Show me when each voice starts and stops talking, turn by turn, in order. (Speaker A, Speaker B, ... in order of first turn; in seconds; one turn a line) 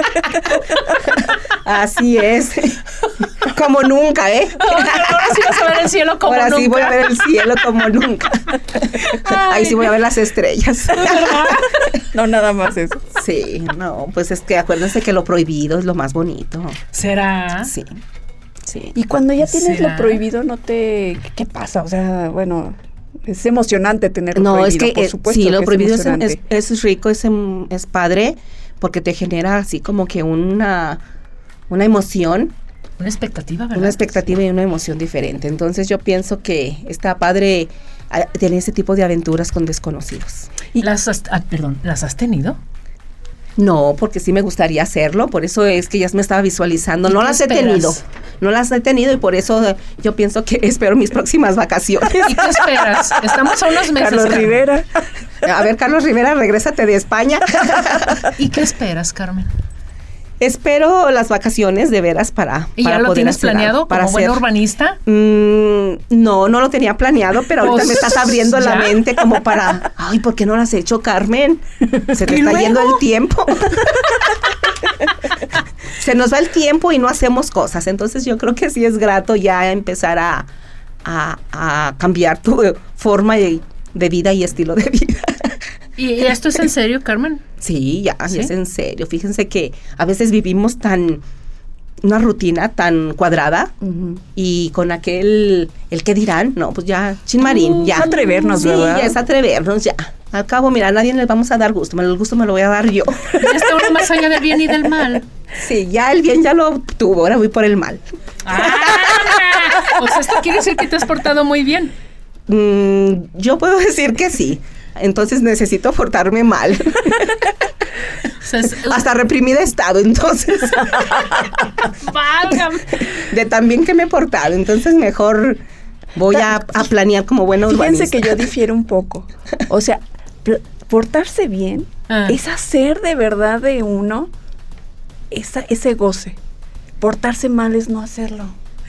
Speaker A: 0.5-2.8
Speaker A: 3.4-5.6
Speaker B: 4.6-7.2
Speaker A: 6.2-11.7
Speaker B: 9.0-9.9
Speaker B: 10.9-11.7
Speaker C: 12.1-13.0
Speaker A: 13.1-16.8
Speaker B: 16.9-17.7
Speaker A: 17.7-18.0
Speaker A: 18.6-18.9
Speaker C: 18.9-26.4
Speaker B: 19.4-20.2
Speaker A: 24.3-31.0
Speaker A: 31.7-32.5
Speaker B: 33.0-34.2
Speaker A: 33.8-40.7
Speaker B: 40.8-42.6
Speaker A: 43.6-52.7
Speaker B: 47.1-48.0
Speaker B: 52.2-54.6
Speaker C: 53.8-54.9
Speaker A: 55.4-58.3
Speaker B: 58.3-59.5
Speaker A: 60.4-64.4
Speaker B: 62.8-65.0
Speaker A: 65.1-74.4
Speaker B: 67.6-69.0
Speaker B: 72.3-73.0
Speaker A: 76.0-80.5
Speaker A: 81.0-85.5
Speaker B: 86.0-87.4
Speaker A: 87.6-91.2
Speaker B: 88.3-88.5
Speaker A: 92.0-103.5
Speaker B: 97.5-98.9
Speaker C: 97.7-99.2
Speaker B: 103.4-105.2
Speaker A: 105.5-108.0
Speaker B: 108.4-111.9
Speaker A: 108.6-109.6
Speaker A: 112.5-117.5
Speaker B: 118.4-119.1
Speaker A: 118.9-121.4
Speaker B: 121.8-123.0
Speaker A: 123.1-125.6
Speaker A: 126.2-128.3
Speaker C: 126.3-126.9
Speaker C: 127.7-134.3
Speaker B: 132.1-132.4
Speaker C: 135.3-136.4
Speaker C: 137.0-138.6